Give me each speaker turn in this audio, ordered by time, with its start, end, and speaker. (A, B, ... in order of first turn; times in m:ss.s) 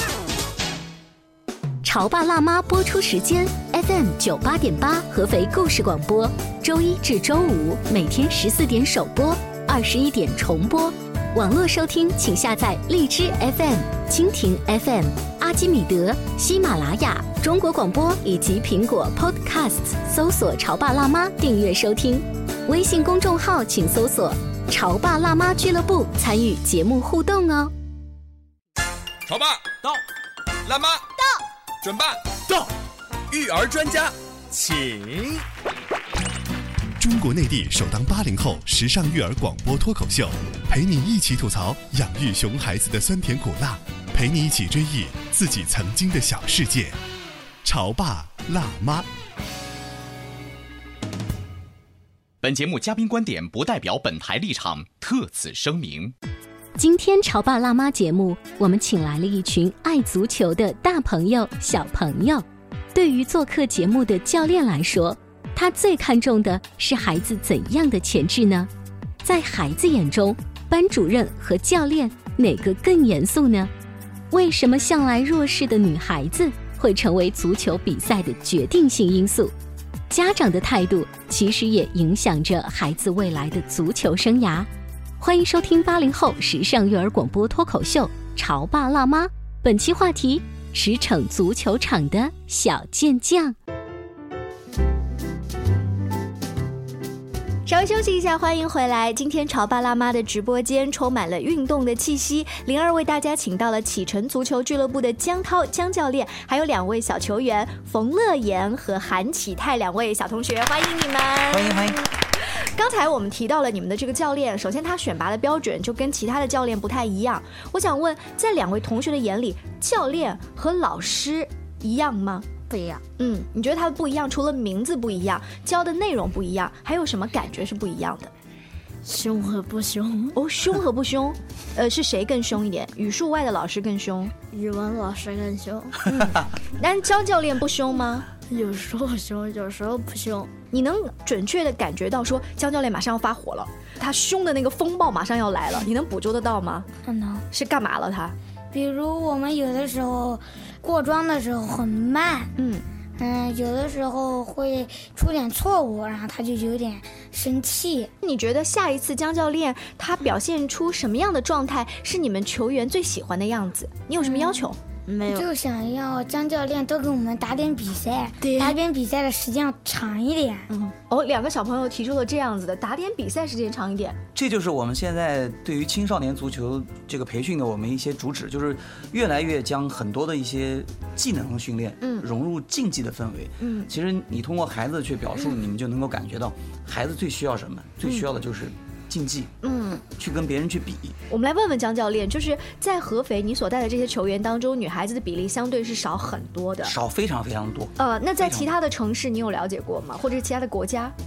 0:01.8-0:27.7 A
0:30.7-0:30.9 B
0:31.8-0:32.1 B
0:33.3-0:35.1 B
0:37.0-0:47.0 C
0:47.6-0:49.1 C
0:52.4-0:56.1 D
0:56.8-1:08.7 A
1:09.2-1:13.7 A
1:14.3-1:19.5 A
1:20.1-1:24.7 A
1:25.2-1:33.6 A
1:37.7-1:52.0 E
1:51.5-1:52.0 F
1:52.7-2:02.5 E
2:02.7-2:03.0 G
2:03.2-2:08.3 E
2:09.0-2:10.4 G
2:10.4-2:14.4 E
2:14.5-2:16.0 G
2:16.1-2:18.3 E
2:18.5-2:20.5 G
2:20.7-2:26.9 E
2:27.0-2:27.4 H
2:27.5-2:28.4 E
2:28.7-2:32.5 H
2:32.6-2:32.8 E
2:33.2-2:38.1 H
2:38.2-2:44.8 E
2:44.2-2:45.5 G
2:45.3-2:50.7 H
2:50.7-2:54.2 E
2:54.4-3:09.5 F
3:03.6-3:03.9 E
3:09.6-3:10.0 E
3:10.2-3:11.2 F
3:11.3-3:16.9 E
3:16.8-3:18.7 F
3:18.0-3:21.2 E